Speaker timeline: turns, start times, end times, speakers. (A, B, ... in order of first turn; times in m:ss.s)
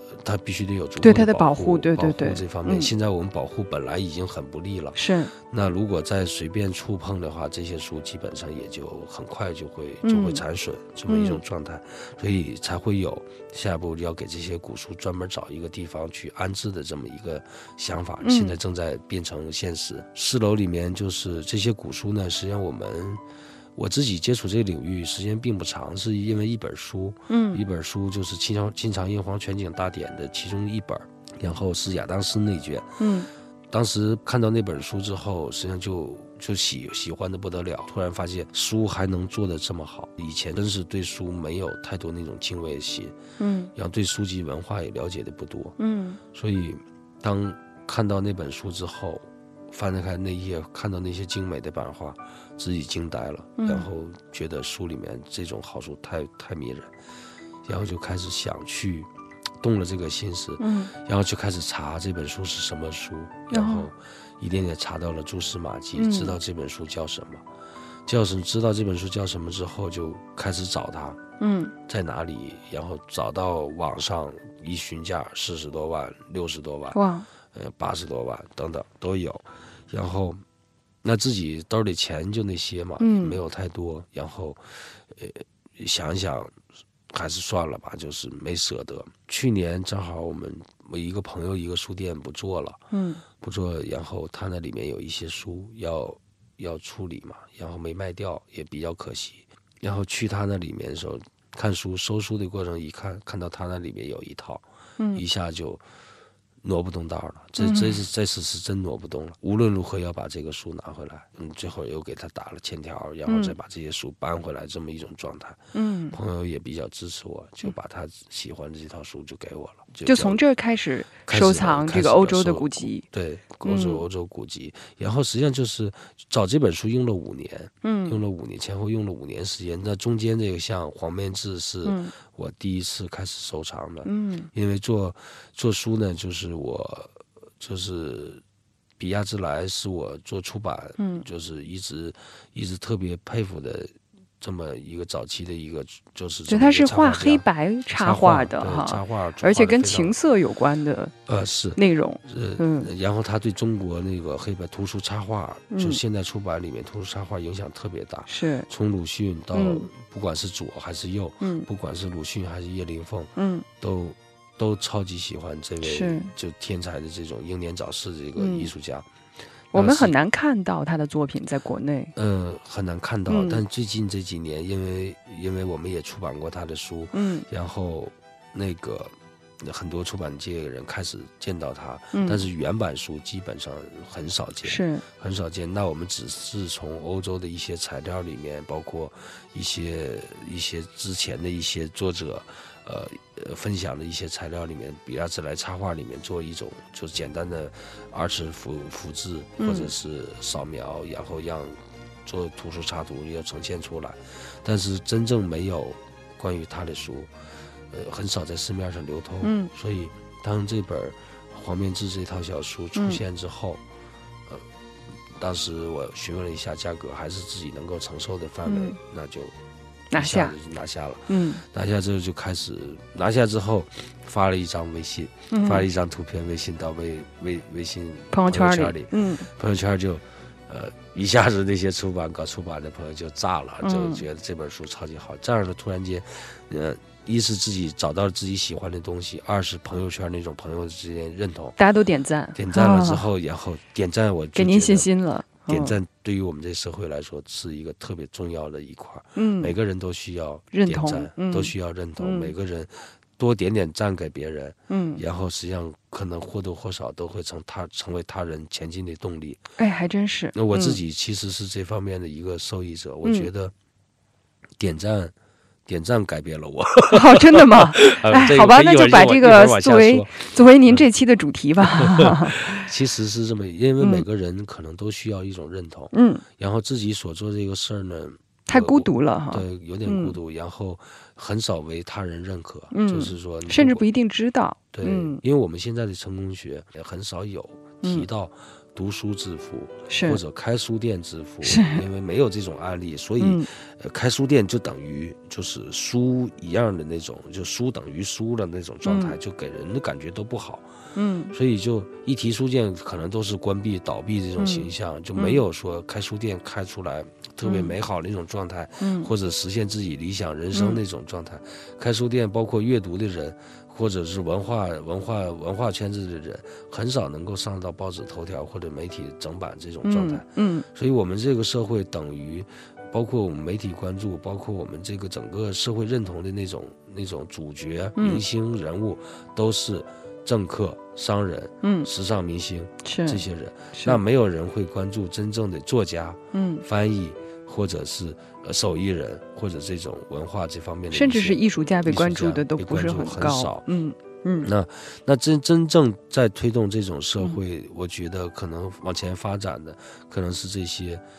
0:00.1-0:23.2 A
0:01.0-0:02.9 B
0:05.0-0:05.3 B
0:10.0-0:10.4 B
0:11.1-0:11.4 B
0:18.2-0:18.6 B
0:23.8-0:33.0 A
0:27.3-0:27.6 B
0:33.0-0:33.3 B
0:33.7-0:43.2 A
0:43.4-0:43.7 B
0:43.8-0:45.8 A
0:45.8-0:46.2 B
0:46.3-0:56.9 A
0:53.6-0:53.9 B
0:57.6-0:59.1 A
0:59.6-1:07.4 A
1:00.6-1:00.9 B
1:03.5-1:03.9 B
1:06.0-1:06.4 B
1:08.1-1:11.2 A
1:11.4-1:11.7 B
1:11.9-1:17.0 A
1:16.9-1:17.3 B
1:17.5-1:20.4 A
1:21.0-1:26.5 A
1:23.0-1:23.4 B
1:27.1-1:32.8 A
1:32.9-1:33.2 B
1:33.4-1:44.6 A
1:45.1-1:45.8 A
1:46.6-1:55.6 A
1:47.6-1:48.0 B
1:53.3-1:53.6 B
1:55.7-1:56.2 B
1:56.1-2:00.4 A
2:00.1-2:03.1 B
2:01.3-2:18.4 A
2:03.6-2:04.0 B
2:07.8-2:08.2 B
2:11.8-2:12.1 B
2:14.0-2:14.5 B
2:19.0-2:27.4 A
2:21.0-2:21.2 B
2:26.5-2:31.1 B
2:28.0-2:30.2 A
2:31.3-2:49.1 A
2:31.8-2:32.9 B
2:35.7-2:36.0 B
2:38.3-2:38.7 B
2:39.5-2:39.9 B
2:41.4-2:41.7 B
2:43.4-2:43.7 B
2:45.8-2:46.3 B
2:48.4-2:48.7 B
2:49.7-2:50.2 A
2:49.7-2:52.1 B
2:52.2-3:27.3 A
2:53.3-2:53.6 B
2:57.1-2:57.5 B
3:02.1-3:02.5 B
3:04.6-3:05.1 B
3:19.6-3:19.9 B
3:27.9-3:33.8 A
3:29.4-3:29.7 B
3:33.0-3:33.2 B
3:35.4-3:39.5 A
3:38.7-3:39.0 B
3:40.1-3:40.6 B
3:40.2-4:01.8 A
3:41.3-3:41.6 B
3:45.5-3:45.9 B
3:48.3-3:49.5 B
3:53.8-3:54.2 B
4:01.8-4:03.2 B
4:02.6-4:05.1 A
4:04.6-4:06.0 B
4:05.7-4:19.6 A
4:09.4-4:09.7 B
4:10.7-4:12.5 B
4:14.9-4:15.2 B
4:19.8-4:21.0 B
4:20.6-4:23.7 A
4:23.2-4:23.5 B
4:24.8-4:25.3 A
4:25.9-4:31.1 A
4:27.1-4:32.9 B
4:31.8-4:44.1 A
4:34.0-4:34.2 B
4:36.1-4:36.4 B
4:38.7-4:40.4 B
4:42.9-4:45.4 B
4:44.9-5:00.9 A
4:50.1-4:50.4 B
4:51.6-4:52.0 B
4:53.4-4:53.7 B
4:59.0-4:59.4 B
5:01.2-5:01.5 B
5:01.5-5:43.8 A
5:04.6-5:05.6 B
5:07.6-5:07.9 B
5:09.0-5:09.3 B
5:10.7-5:11.0 B
5:20.0-5:20.9 B
5:28.2-5:28.4 B
5:31.8-5:32.1 B
5:33.0-5:34.2 B
5:36.5-5:36.8 B
5:41.1-5:44.7 B
5:44.6-5:51.2 A